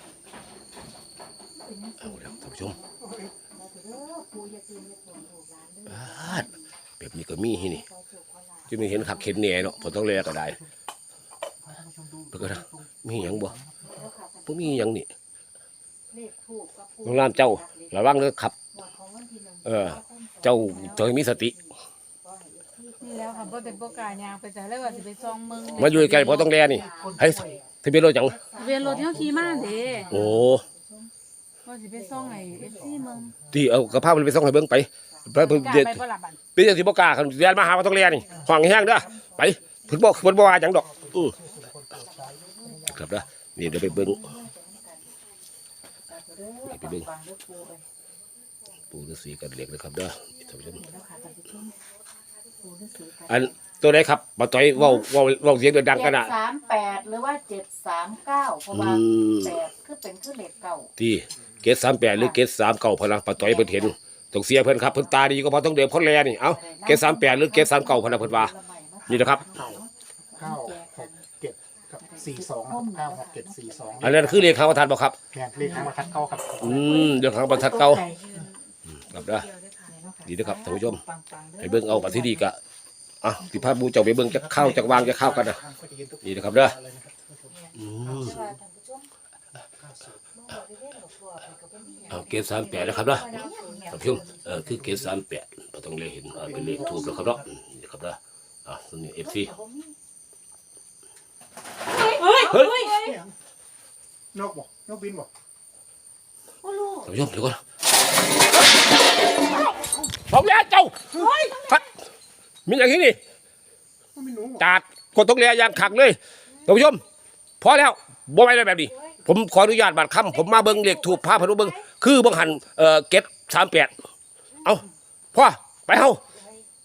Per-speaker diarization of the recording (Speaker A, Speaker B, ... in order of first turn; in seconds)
Speaker A: 1.5-6.7, 7.4-10.2, 13.8-14.9, 16.1-31.1, 31.9-33.3, 35.1-35.7, 37.9-45.2, 46.1-47.9, 50.5-51.8, 52.6-53.6, 54.7-55.1, 55.9-60.9, 63.3-64.0, 64.7-65.5, 66.5-71.3, 71.9-74.4, 75.5-78.4, 79.8-82.5, 87.5-89.1, 90.3-94.8, 96.4-97.4, 99.2-100.0, 102.0-102.9, 106.6-107.1, 111.1-111.8, 118.9-119.2, 120.3-121.8, 126.3-126.6
Speaker B: 2.0-2.8, 5.9-6.5, 7.0-7.8, 8.7-10.6, 12.3-13.6, 14.5-15.1, 17.1-18.5, 19.6-21.5, 25.8-28.4, 30.1-30.6, 33.5-36.0, 36.5-41.4, 42.9-44.2, 46.7-47.1, 48.9-50.9, 53.3-56.3, 58.7-59.6, 61.0-68.5, 69.1-69.5, 74.0-75.2, 76.6-78.0, 78.9-79.5, 80.3-81.0, 81.6-82.6, 83.2-85.6, 86.2-86.8, 87.8-88.4, 92.1-93.3, 93.9-99.5, 102.5-102.9, 107.0-107.6, 110.2-111.0, 112.7-113.2, 114.6-117.0, 117.6-123.9, 124.6-126.2
Speaker C: 3.0-3.4, 8.7-10.7, 11.6-14.1, 26.6-27.6, 28.6-30.3, 32.1-34.1, 38.3-39.3, 39.9-44.1, 61.3-61.7, 69.5-74.6, 75.3-77.2, 83.5-88.6, 89.5-90.2, 93.9-95.2, 96.3-97.5, 102.5-103.3, 104.3-105.3, 111.1-111.6, 114.2-114.7
Speaker D: 23.0-26.6, 28.6-30.2, 31.6-33.4, 35.4-36.4, 50.7-52.6, 55.7-57.1, 75.8-76.1, 77.4-80.0, 91.9-93.9, 101.9-103.2